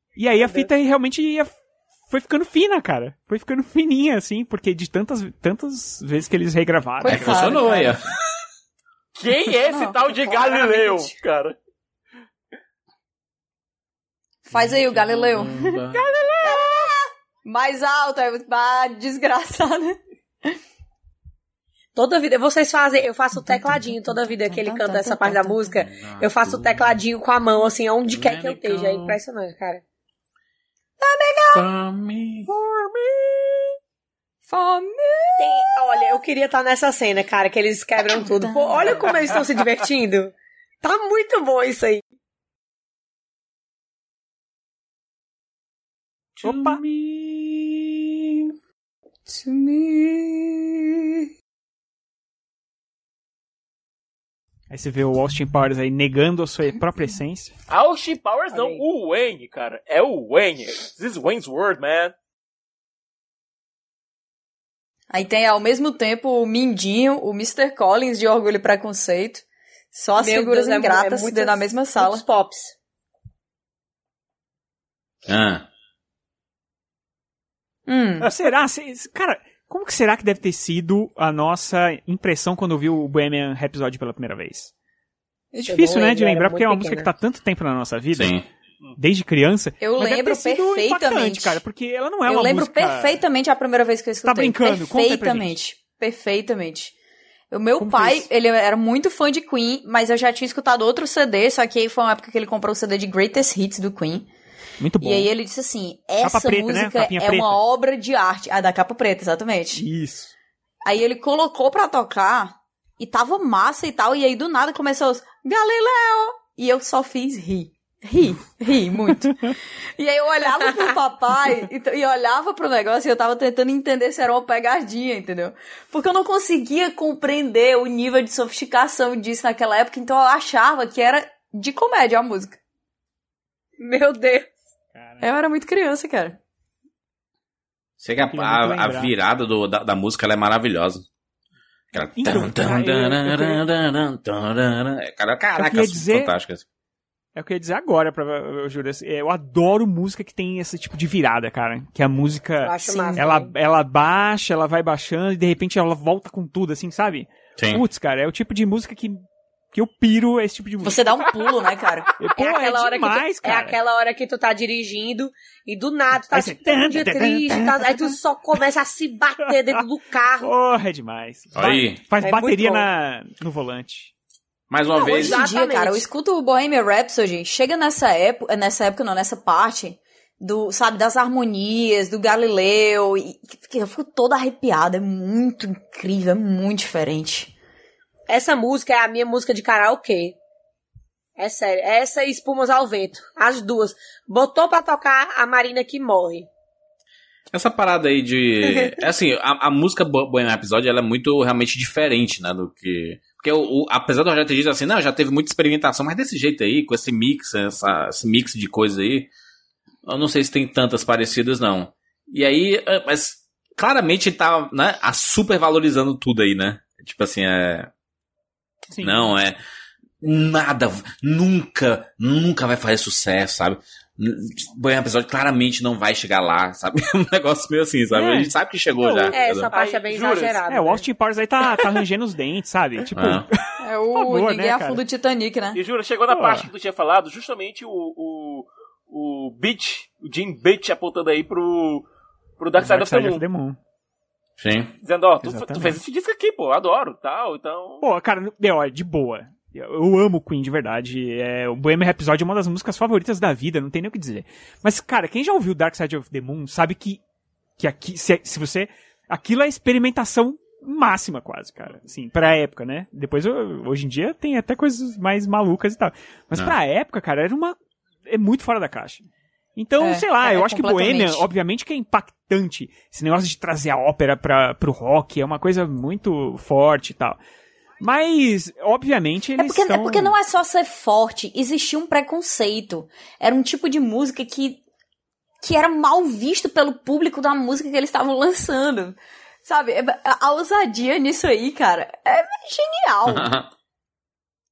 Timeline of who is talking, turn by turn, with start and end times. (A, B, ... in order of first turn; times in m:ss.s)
0:00.2-0:01.5 A
0:00.4-0:00.7 B
0:02.1-0:07.9 A
0:07.0-0:08.0 C
0:07.1-0:08.0 D
0:09.2-0:11.6 E
0:09.7-0:11.1 C
0:14.5-0:15.8 C
0:14.5-0:16.0 D
0:16.4-0:20.0 C
0:22.0-0:29.8 B
0:23.4-0:25.8 C
0:25.8-0:27.0 D
0:28.1-0:29.2 D
0:31.0-0:31.7 C
0:31.5-0:32.5 D
0:34.5-0:36.1 C
0:35.4-0:42.0 B
0:38.0-0:39.3 C
0:46.4-0:47.8 D
0:46.4-0:46.8 A
0:49.3-0:51.0 C
0:54.7-0:57.5 A
0:57.7-1:02.1 E
0:58.5-0:58.8 B
1:05.1-1:12.2 C
1:10.2-1:12.7 B
1:15.3-1:15.7 D
1:17.9-1:18.3 C
1:18.2-1:24.7 A
1:25.5-1:28.4 A
1:25.7-1:27.1 B
1:28.1-1:28.4 D
1:29.0-1:33.2 A
1:29.8-1:31.6 C
1:32.2-1:36.9 C
1:34.2-1:35.6 A
1:37.5-1:44.3 C
1:37.8-1:38.3 A
1:44.8-1:45.3 A
1:45.0-1:49.9 C
1:46.2-1:47.6 A
1:49.8-1:50.3 A
1:50.8-2:12.6 C
2:13.8-2:14.5 B
2:15.0-2:15.3 A
2:15.2-2:16.4 C
2:18.0-2:21.0 D
2:18.3-2:19.1 A
2:21.9-2:26.6 D
2:22.1-2:23.6 A
2:25.6-2:26.3 A
2:27.4-2:41.0 A
2:32.6-2:33.5 B
2:32.8-2:33.2 C
2:37.6-2:37.8 D
2:40.8-2:42.1 C
2:42.2-2:43.8 A
2:42.4-2:50.5 B
2:46.3-2:48.1 A
2:49.5-2:49.8 A
2:50.4-2:54.1 A
2:51.6-2:52.0 D
2:52.2-2:52.9 B
2:54.7-2:55.4 D
2:55.0-2:56.1 B
2:55.0-3:07.5 C
3:08.3-3:10.4 B
3:11.4-3:16.5 B
3:17.5-3:29.3 D
3:30.1-3:37.9 D
3:38.9-3:39.3 A
3:39.0-3:39.6 D
3:40.2-3:49.7 D
3:48.1-3:49.4 A
3:49.3-3:51.1 B
3:49.7-3:50.6 E
3:50.7-3:55.0 A
3:53.1-3:53.5 D
3:53.8-3:55.8 C
3:55.8-4:02.1 E
3:56.3-3:56.7 A
4:02.6-4:03.4 E
4:02.8-4:03.8 A
4:04.6-4:04.9 D
4:05.0-4:08.0 E
4:05.4-4:06.0 A
4:08.0-4:17.2 A
4:17.8-4:29.2 A
4:29.8-4:37.4 A
4:30.0-4:31.5 C
4:38.0-4:40.4 A
4:39.6-4:44.8 C
4:45.6-4:53.5 C
4:53.3-4:53.7 D